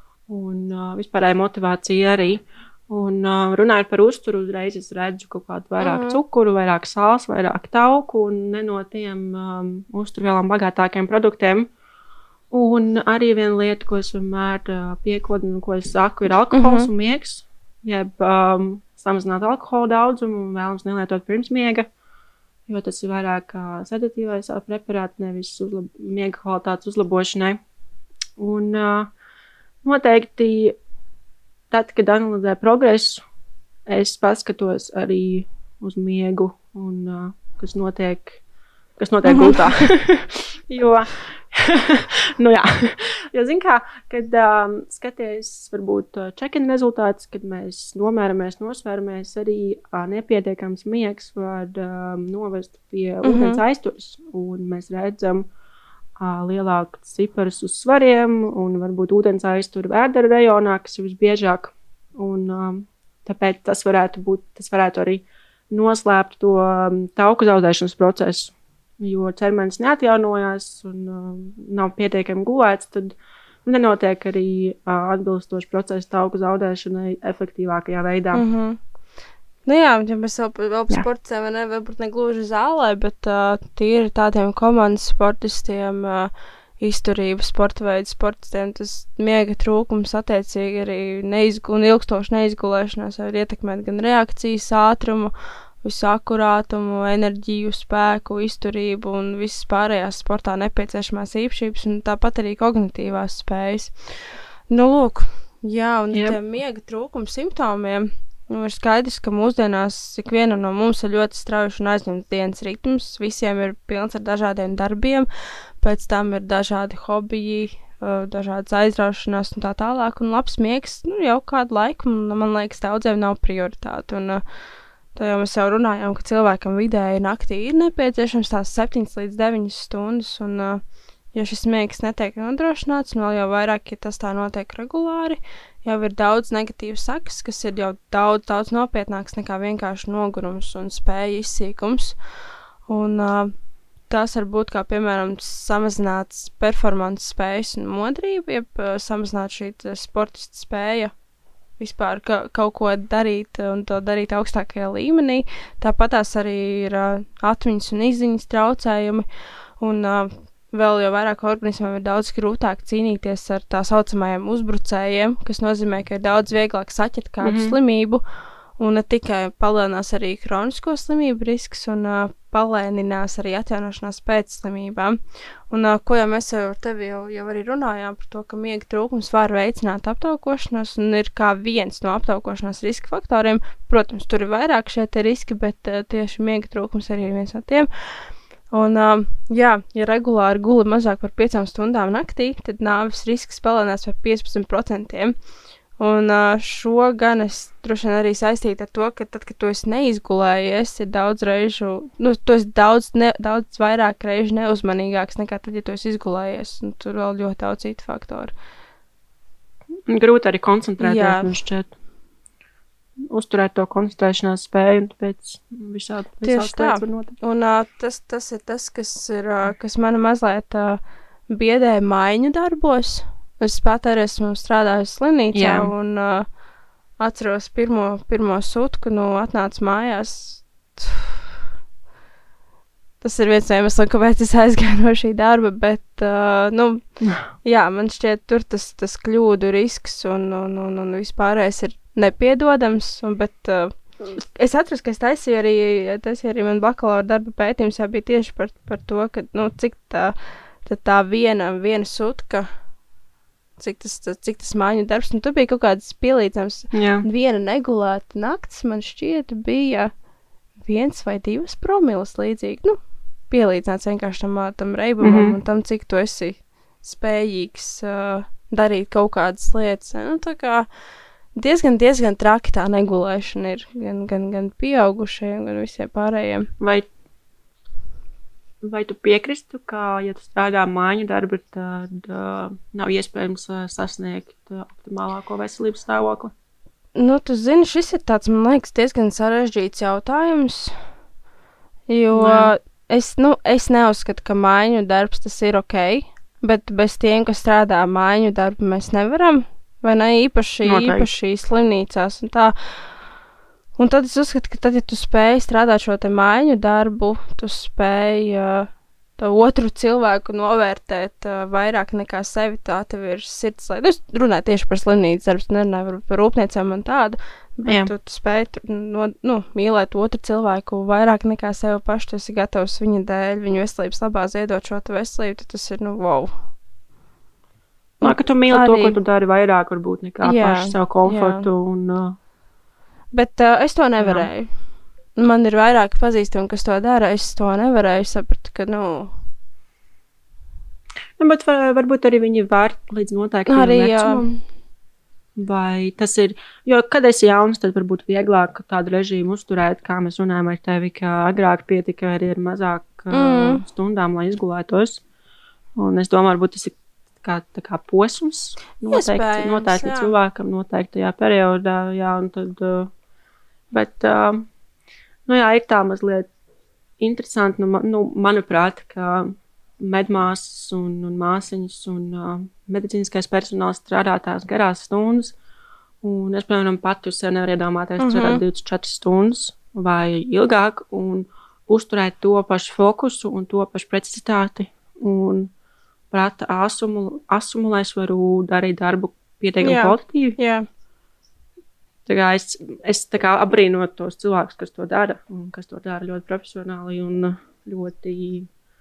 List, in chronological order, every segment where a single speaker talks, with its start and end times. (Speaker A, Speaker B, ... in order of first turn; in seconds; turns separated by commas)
Speaker A: 0.3-11.7, Speaker B: 5.8-6.2, Speaker A: 12.5-21.9, Speaker B: 16.5-16.9, Speaker A: 22.7-27.6, Speaker A: 28.4-29.1, Speaker A: 29.8-30.8, Speaker A: 31.7-33.2, Speaker A: 33.9-38.4, Speaker A: 39.0-55.5, Speaker B: 39.3-39.6, Speaker B: 53.2-53.6, Speaker A: 56.2-78.4, Speaker B: 78.3-78.8, Speaker B: 79.6-103.9, Speaker B: 104.7-115.3, Speaker A: 106.1-106.4, Speaker B: 115.8-124.4, Speaker B: 125.1-130.8, Speaker B: 131.3-142.2, Speaker B: 142.8-143.5, Speaker B: 144.1-151.1, Speaker B: 151.8-159.2, Speaker B: 159.8-168.2, Speaker A: 167.4-167.7, Speaker B: 168.8-195.3, Speaker B: 196.0-208.5, Speaker A: 210.1-211.9, Speaker B: 211.0-211.5, Speaker A: 213.3-217.3, Speaker B: 216.4-226.5, Speaker A: 225.5-225.9, Speaker B: 227.2-231.4, Speaker B: 233.2-252.7, Speaker B: 253.8-260.1, Speaker A: 256.9-257.2, Speaker B: 260.8-263.0, Speaker B: 263.5-270.9, Speaker A: 265.2-265.5, Speaker B: 271.5-276.7, Speaker A: 276.8-277.1, Speaker A: 278.8-286.5, Speaker B: 287.1-291.0, Speaker B: 292.1-303.1, Speaker A: 292.3-292.7, Speaker A: 300.8-301.3, Speaker B: 303.9-326.5, Speaker A: 317.9-318.1, Speaker B: 328.2-329.2, Speaker A: 328.2-332.4, Speaker B: 330.4-331.6, Speaker B: 333.3-334.8, Speaker A: 334.2-334.5, Speaker B: 335.3-339.3, Speaker A: 341.4-344.5, Speaker B: 343.7-344.6, Speaker A: 345.6-355.2, Speaker B: 353.3-353.8, Speaker A: 355.9-363.1, Speaker B: 359.1-360.3, Speaker A: 363.9-364.6, Speaker A: 365.4-366.5, Speaker A: 367.2-375.5, Speaker A: 376.2-385.7, Speaker B: 378.2-378.6, Speaker A: 386.3-390.6, Speaker B: 389.8-390.9, Speaker A: 392.2-398.7